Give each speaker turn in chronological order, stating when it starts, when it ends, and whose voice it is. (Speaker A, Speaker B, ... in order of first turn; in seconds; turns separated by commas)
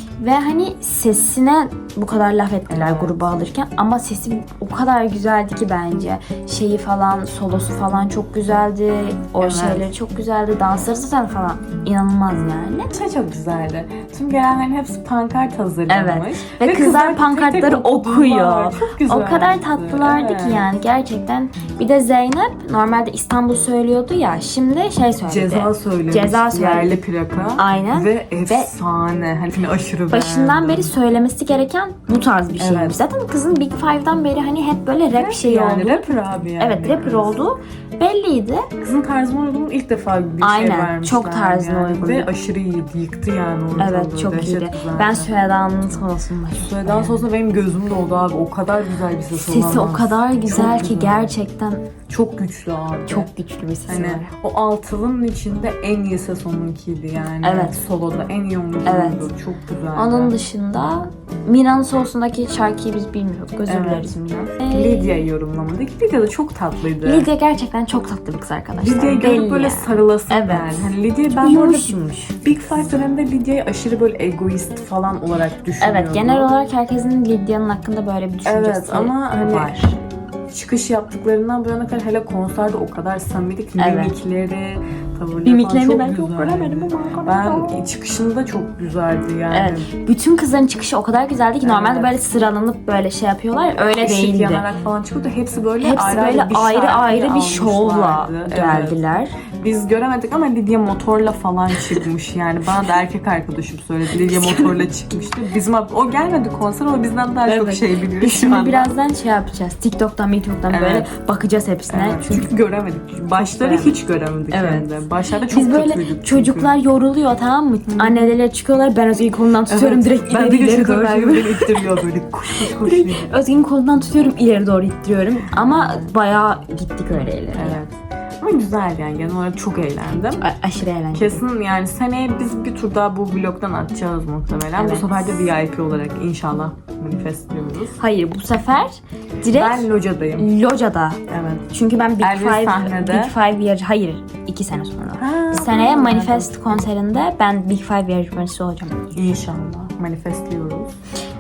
Speaker A: 0.2-12.9, Speaker B: 2.7-3.2, Speaker B: 9.4-9.9, Speaker B: 12.9-20.7, Speaker A: 15.9-27.0, Speaker B: 25.2-30.9, Speaker A: 27.6-28.7, Speaker A: 30.1-38.7, Speaker B: 32.6-33.0, Speaker B: 35.1-37.3, Speaker B: 38.8-45.3, Speaker A: 40.4-42.3, Speaker A: 43.8-47.2, Speaker B: 46.6-51.3, Speaker A: 49.3-51.9, Speaker B: 52.1-53.3, Speaker A: 53.1-54.3, Speaker B: 53.9-60.4, Speaker A: 57.4-57.8, Speaker A: 58.8-59.3, Speaker A: 59.9-65.2, Speaker B: 63.7-67.3, Speaker A: 67.0-72.4, Speaker B: 68.8-76.5, Speaker A: 75.8-80.0, Speaker B: 78.4-79.8, Speaker B: 80.5-89.9, Speaker A: 83.8-84.1, Speaker A: 85.4-87.8, Speaker A: 89.5-94.7, Speaker B: 91.6-92.2, Speaker B: 93.8-99.0, Speaker A: 95.8-99.4, Speaker B: 99.5-108.9, Speaker A: 104.2-104.8, Speaker A: 107.5-112.5, Speaker B: 110.7-111.1, Speaker B: 111.9-116.7, Speaker A: 113.4-114.0, Speaker A: 114.5-114.9, Speaker A: 115.5-122.0, Speaker B: 117.9-118.3, Speaker B: 119.7-123.3, Speaker A: 122.5-127.8, Speaker B: 125.6-126.1, Speaker B: 127.1-130.5, Speaker A: 130.4-131.4, Speaker B: 131.1-138.0, Speaker A: 134.7-135.5, Speaker A: 138.0-149.1, Speaker B: 139.4-140.5, Speaker B: 141.3-141.7, Speaker B: 142.2-143.3, Speaker B: 145.2-146.8, Speaker B: 149.1-150.9